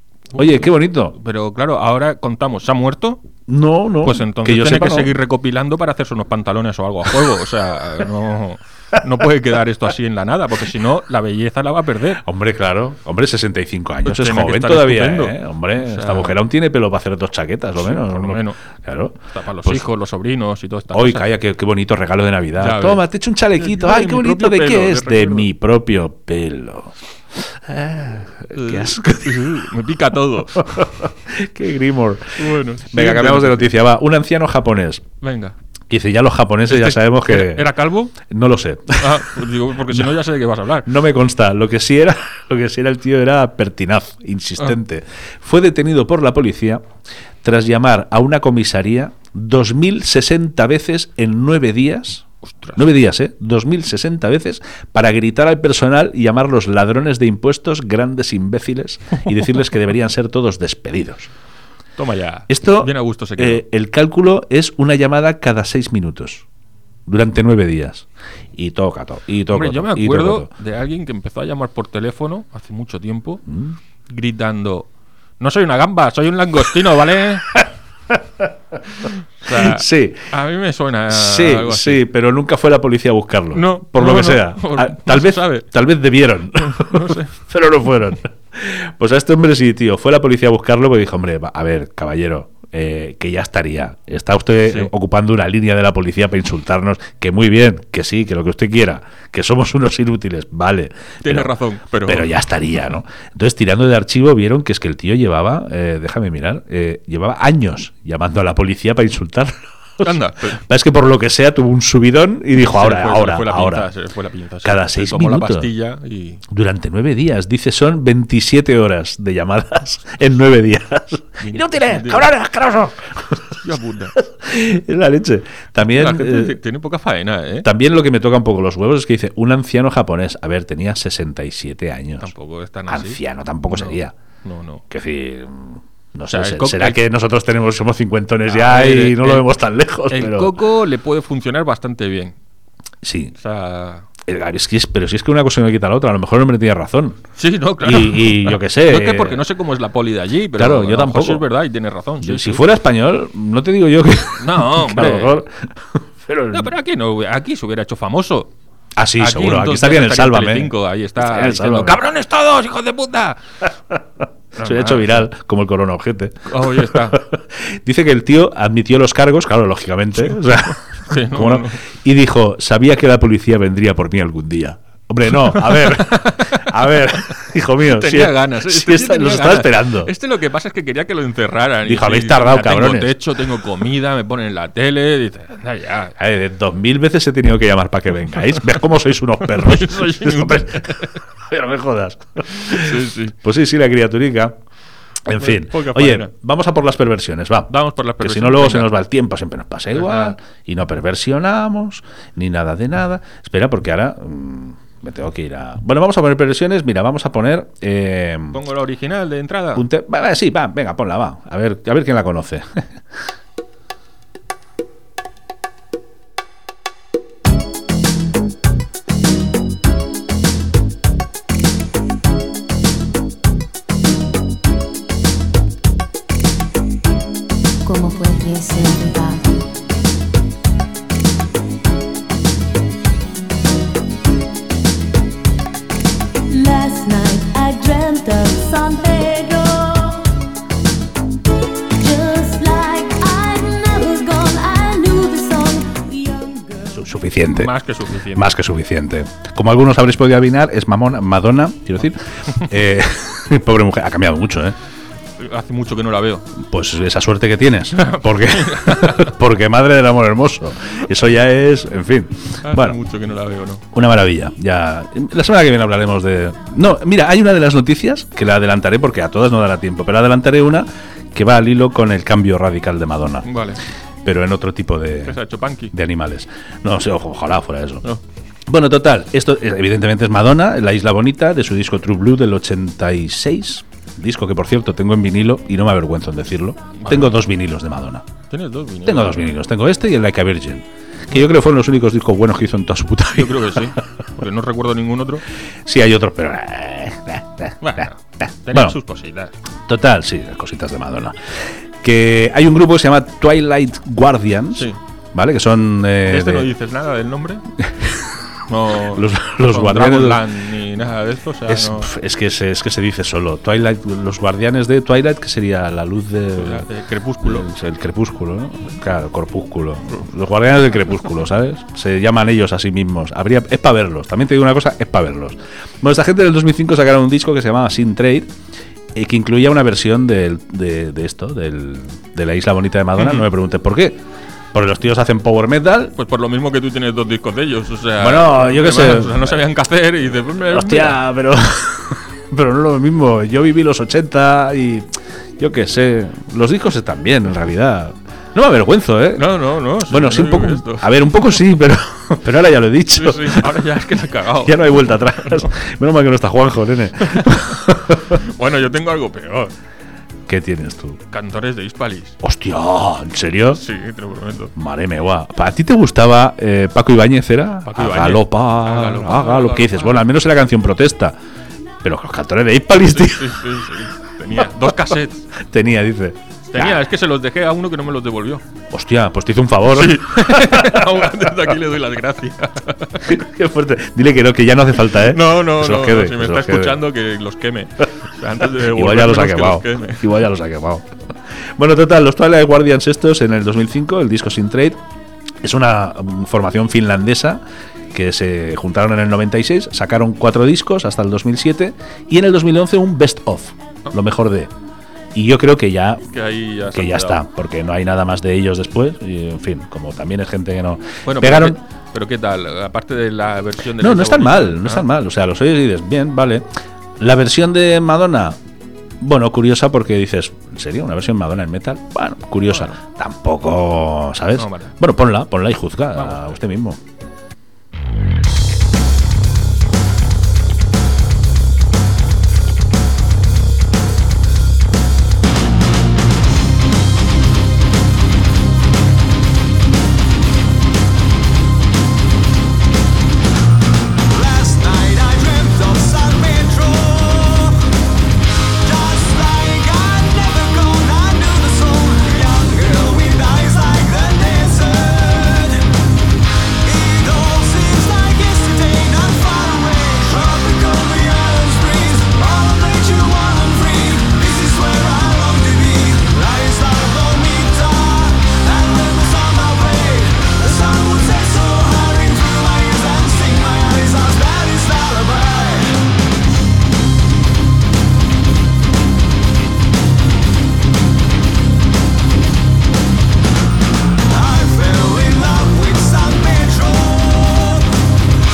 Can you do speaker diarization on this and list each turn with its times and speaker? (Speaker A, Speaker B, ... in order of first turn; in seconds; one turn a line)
Speaker A: 0.3-3.2
Speaker B: 0.3-1.1
Speaker B: 3.5-5.2
Speaker A: 4.0-12.2
Speaker B: 12.2-19.9
Speaker A: 14.1-16.3
Speaker A: 17.8-18.6
Speaker A: 19.3-21.2
Speaker B: 20.9-29.7
Speaker A: 22.6-23.0
Speaker A: 23.6-25.5
Speaker A: 28.6-30.7
Speaker B: 30.6-35.0
Speaker A: 32.4-33.7
Speaker A: 35.2-35.5
Speaker B: 35.9-40.1
Speaker A: 36.7-38.1
Speaker A: 39.0-40.9
Speaker B: 40.9-46.8
Speaker B: 47.4-61.3
Speaker A: 52.4-52.9
Speaker A: 62.0-63.6
Speaker B: 62.5-66.5
Speaker B: 67.1-70.5
Speaker A: 69.5-73.4
Speaker B: 73.5-73.8
Speaker A: 74.1-74.9
Speaker A: 75.4-77.6
Speaker B: 77.5-78.8
Speaker A: 79.1-82.0
Speaker B: 79.5-80.3
Speaker B: 81.1-113.9
Speaker A: 83.5-85.6
Speaker A: 86.7-87.3
Speaker A: 101.2-102.3
Speaker A: 110.0-110.6
Speaker A: 112.6-116.4
Speaker B: 114.6-115.7
Speaker B: 116.5-123.6
Speaker A: 121.4-122.3
Speaker A: 123.6-124.2
Speaker B: 124.2-126.6
Speaker A: 125.9-127.7
Speaker B: 127.6-132.3
Speaker A: 132.2-133.2
Speaker B: 132.9-134.1
Speaker A: 133.7-134.8
Speaker B: 134.9-140.6
Speaker A: 136.3-137.0
Speaker A: 138.5-139.5
Speaker A: 140.1-142.3
Speaker B: 143.0-143.3
Speaker A: 143.4-144.1
Speaker B: 144.2-147.2
Speaker A: 147.4-152.6
Speaker B: 147.8-149.5
Speaker B: 150.5-151.5
Speaker B: 152.2-156.7
Speaker A: 154.4-155.4
Speaker A: 156.5-158.5
Speaker B: 159.0-162.0
Speaker A: 159.2-163.4
Speaker B: 164.6-180.1
Speaker A: 164.6-165.3
Speaker A: 166.5-167.2
Speaker A: 171.1-171.8
Speaker A: 175.4-177.2
Speaker A: 177.9-186.1
Speaker B: 181.8-183.3
Speaker B: 186.2-194.6
Speaker A: 189.5-191.2
Speaker A: 192.6-193.3
Speaker B: 195.3-208.6
Speaker A: 195.4-196.3
Speaker A: 197.7-198.9
Speaker A: 200.0-200.3
Speaker A: 208.5-209.8
Speaker B: 209.8-212.9
Speaker C: 227.8-229.5
Speaker C: 236.5-240.3
Speaker C: 242.0-246.9
Speaker B: 246.9-247.7
Speaker A: 247.6-248.5
Speaker B: 248.3-254.8
Speaker A: 255.4-256.5
Speaker B: 256.6-263.0
Speaker A: 258.0-259.3
Speaker A: 262.6-263.8
Speaker B: 263.9-273.5
Speaker A: 273.4-273.8
Speaker B: 274.2-278.1
Speaker A: 275.3-275.9
Speaker B: 278.7-288.3
Speaker A: 287.0-287.3
Speaker A: 288.5-289.5
Speaker B: 289.0-294.0
Speaker A: 293.4-295.4
Speaker B: 295.9-299.0
Speaker A: 297.8-299.5
Speaker B: 299.9-306.7
Speaker A: 306.3-307.6
Speaker B: 307.8-308.4
Speaker A: 308.7-312.1
Speaker B: 309.1-310.5
Speaker B: 311.7-316.9
Speaker A: 316.6-317.7
Speaker B: 317.4-328.5
Speaker B: 329.1-334.2
Speaker B: 334.7-336.1
Speaker A: 336.2-341.2
Speaker B: 338.2-339.6
Speaker B: 340.7-349.5
Speaker A: 349.4-351.1
Speaker B: 350.1-353.8
Speaker A: 353.2-355.7
Speaker B: 354.6-358.4
Speaker A: 357.3-359.7
Speaker B: 360.5-361.2
Speaker A: 361.3-362.4
Speaker B: 362.4-363.8
Speaker A: 363.7-364.7
Speaker B: 364.8-371.4
Speaker A: 367.9-370.3
Speaker B: 372.0-373.6
Speaker A: 373.0-375.5
Speaker B: 375.6-377.0
Speaker A: 376.7-378.6
Speaker B: 378.9-381.4
Speaker A: 379.9-383.4
Speaker B: 383.2-387.1
Speaker A: 385.2-390.3
Speaker B: 388.8-391.1
Speaker B: 391.8-395.0
Speaker B: 395.6-404.7
Speaker B: 405.3-406.3
Speaker A: 406.3-407.4
Speaker B: 406.9-411.8
Speaker A: 411.3-415.1
Speaker B: 414.0-416.7
Speaker B: 417.2-418.6
Speaker B: 419.2-427.0
Speaker A: 424.6-424.9
Speaker A: 426.2-426.5
Speaker D: 444.3-447.8
Speaker D: 448.8-455.9
Speaker D: 456.8-476.0
Speaker D: 484.3-487.9